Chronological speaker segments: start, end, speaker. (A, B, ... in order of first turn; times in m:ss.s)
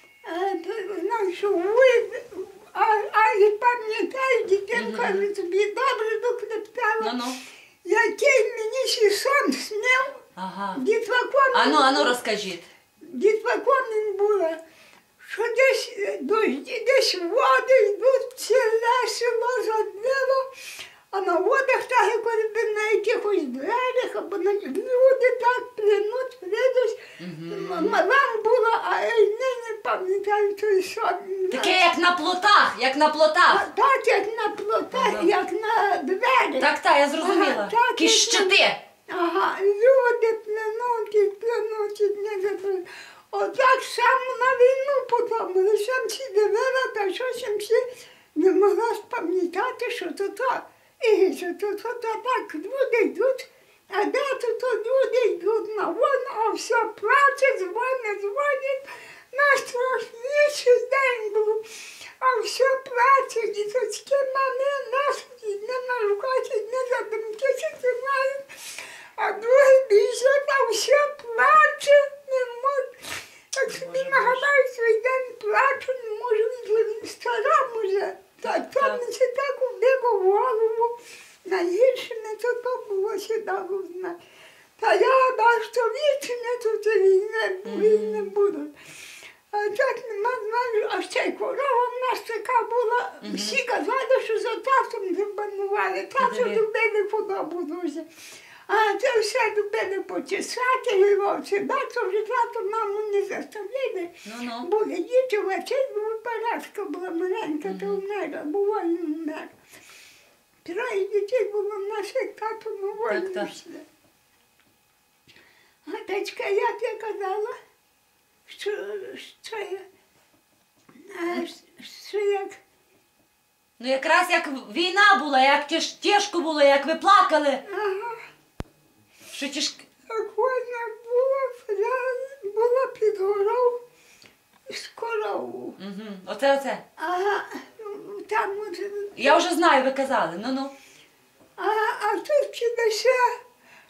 0:00.2-0:07.2 A
0:04.7-0:05.3 B
0:07.0-0:07.4 B
0:07.8-0:10.2 A
0:10.4-0:10.8 B
0:10.7-0:12.2 A
0:11.5-0:12.6 B
0:13.0-0:14.6 A
0:15.2-0:20.5 A
0:21.1-0:31.8 A
0:27.2-0:28.0 B
0:31.5-0:33.7 B
0:33.5-0:47.8 A
0:34.9-0:35.3 B
0:36.6-0:38.8 B
0:48.3-1:01.6 A
1:02.2-1:08.4 A
1:09.2-1:12.9 A
1:13.6-1:20.9 A
1:13.7-1:14.5 B
1:18.4-1:19.0 B
1:21.4-1:24.2 A
1:24.8-1:28.7 A
1:27.6-1:28.3 B
1:29.5-1:38.1 A
1:33.2-1:33.6 B
1:36.2-1:36.6 B
1:38.7-1:49.5 A
1:44.2-1:44.7 B
1:47.6-1:48.0 B
1:50.6-1:53.9 A
1:53.0-1:53.5 B
1:55.9-1:57.6 A
1:58.4-1:59.8 A
2:01.1-2:02.6 A
2:03.8-2:07.6 B
2:07.6-2:08.2 A
2:09.3-2:09.9 B
2:10.1-2:13.8 A
2:14.7-2:15.8 A
2:15.8-2:16.8 B
2:17.0-2:19.4 A
2:19.2-2:20.8 B
2:21.6-2:23.4 A